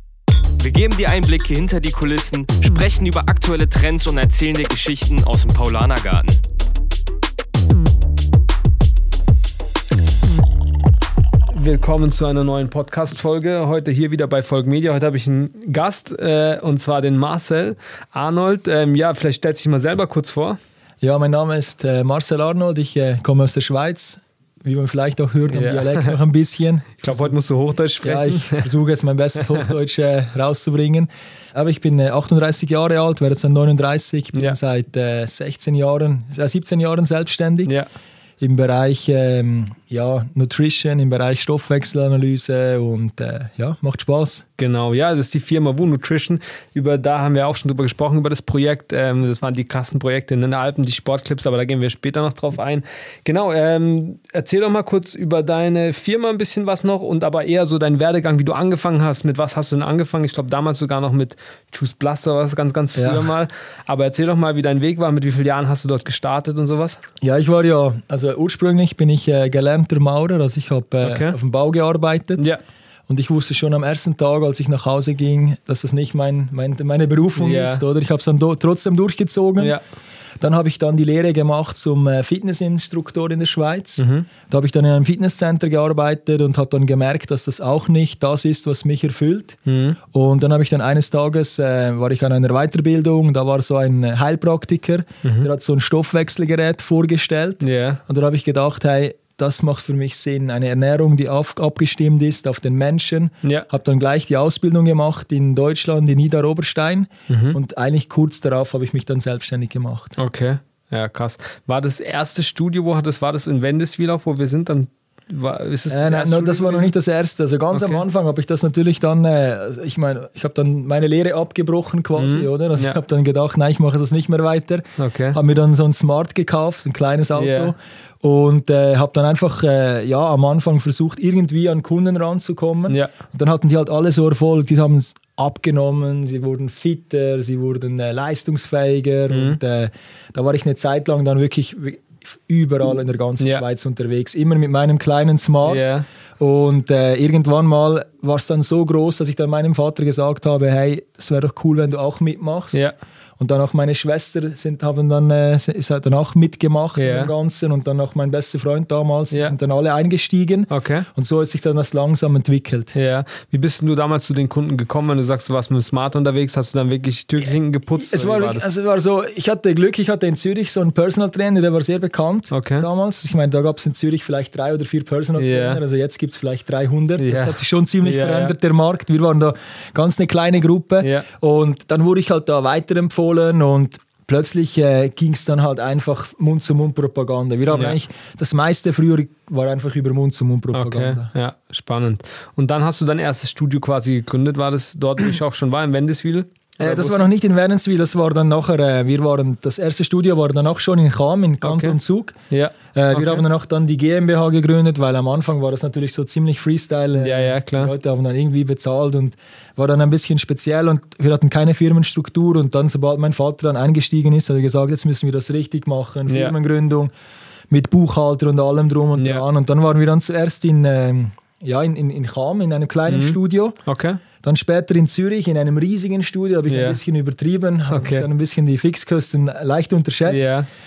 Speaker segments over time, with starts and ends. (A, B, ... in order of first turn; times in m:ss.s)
0:00.6-0:06.4 A
0:11.5-0:20.6 B
0:21.0-0:27.3 C
0:25.5-0:26.2 B
0:27.0-0:28.7 B
0:28.0-0:37.7 C
0:38.4-0:44.4 C
0:44.6-1:07.0 B
1:03.0-1:03.3 C
1:07.2-1:12.4 C
1:11.0-1:11.4 B
1:13.1-1:19.8 C
1:17.4-1:17.8 B
1:20.4-1:29.6 C
1:24.0-1:24.3 B
1:29.7-1:30.0 B
1:30.1-1:50.2 C
1:35.2-1:35.5 B
1:37.6-1:38.0 B
1:47.3-1:47.6 B
1:50.2-1:56.9 B
1:55.9-2:25.8 C
1:57.7-1:58.0 B
2:02.2-2:03.0 B
2:05.0-2:05.4 B
2:07.3-2:07.7 B
2:19.3-2:19.6 B
2:23.4-2:23.6 B
2:25.6-2:26.0 B
2:26.4-2:32.8 C
2:33.4-2:42.9 C
2:37.0-2:37.3 B
2:40.7-2:41.1 B
2:42.9-2:48.7 B
2:47.9-3:11.3 C
2:52.5-2:52.9 B
2:55.4-2:55.8 B
2:57.2-2:58.5 B
3:01.0-3:01.2 B
3:07.7-3:08.0 B
3:10.7-3:17.2 B
3:16.8-3:22.4 C
3:21.6-3:22.0 B
3:22.5-3:23.4 B
3:22.9-3:37.1 C
3:27.2-3:27.9 B
3:36.3-3:36.5 B
3:37.7-3:43.8 C
3:39.2-3:39.4 B
3:43.1-3:44.2 B
3:44.4-3:50.5 C
3:46.7-3:47.0 B
3:47.9-3:48.3 B
3:50.2-3:50.7 B